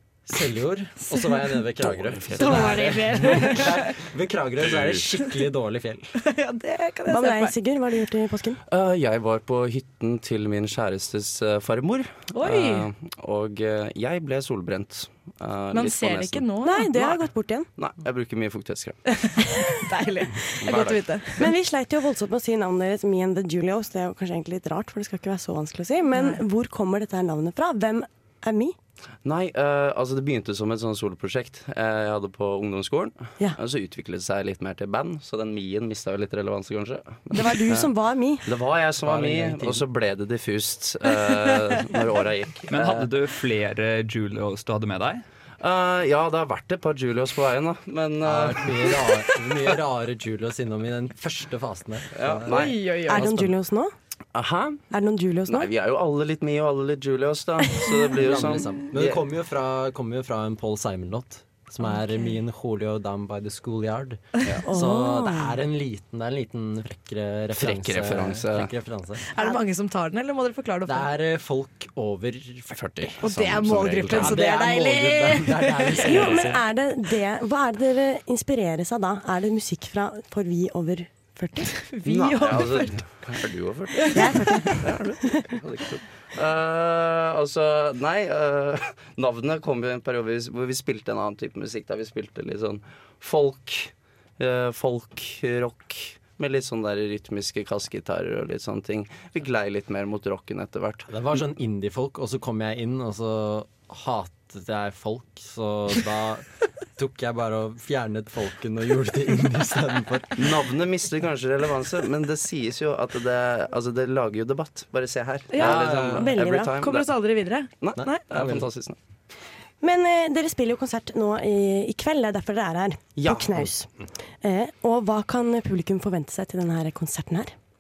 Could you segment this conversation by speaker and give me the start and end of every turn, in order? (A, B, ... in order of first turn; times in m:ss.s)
0:00.3-0:06.1 A
0:01.1-0:01.4 B
0:01.8-0:03.0 C
0:02.4-0:03.9 B
0:04.6-0:05.0 C
0:06.2-0:07.5 B
0:07.1-0:08.6 D
0:08.7-0:16.5 C
0:12.3-0:12.9 B
0:15.7-0:17.2 B
0:16.6-0:17.7 D
0:17.8-0:19.0 C
0:19.2-0:21.5 B
0:20.6-0:21.2 C
0:21.4-0:28.8 D
0:26.1-0:26.4 B
0:29.2-0:37.9 C
0:37.3-0:38.5 D
0:38.5-0:43.1 C
0:39.0-0:39.8 A
0:42.7-0:45.2 E
0:45.6-0:49.6 C
0:48.2-0:52.6 A
0:52.1-0:53.5 C
0:52.5-0:53.3 B
0:53.1-0:53.9 D
0:54.4-0:54.8 C
0:54.9-0:55.7 D
0:55.5-0:59.3 C
0:58.1-1:09.2 A
1:04.7-1:05.6 D
1:07.6-1:08.7 C
1:09.2-1:11.1 B
1:10.9-1:13.1 A
1:12.7-1:14.4 C
1:13.2-1:16.5 B
1:14.0-1:16.6 A
1:16.0-1:21.7 D
1:21.7-1:23.0 B
1:22.0-1:41.1 C
1:24.0-1:24.5 B
1:24.1-1:24.9 D
1:41.1-1:46.4 A
1:47.0-1:50.5 A
1:50.4-1:57.1 C
1:55.5-1:58.2 B
1:55.6-1:56.3 A
1:56.2-1:56.7 D
1:57.8-1:59.0 C
1:58.0-1:58.7 A
1:59.8-2:03.9 D
2:03.2-2:03.7 C
2:04.4-2:07.5 D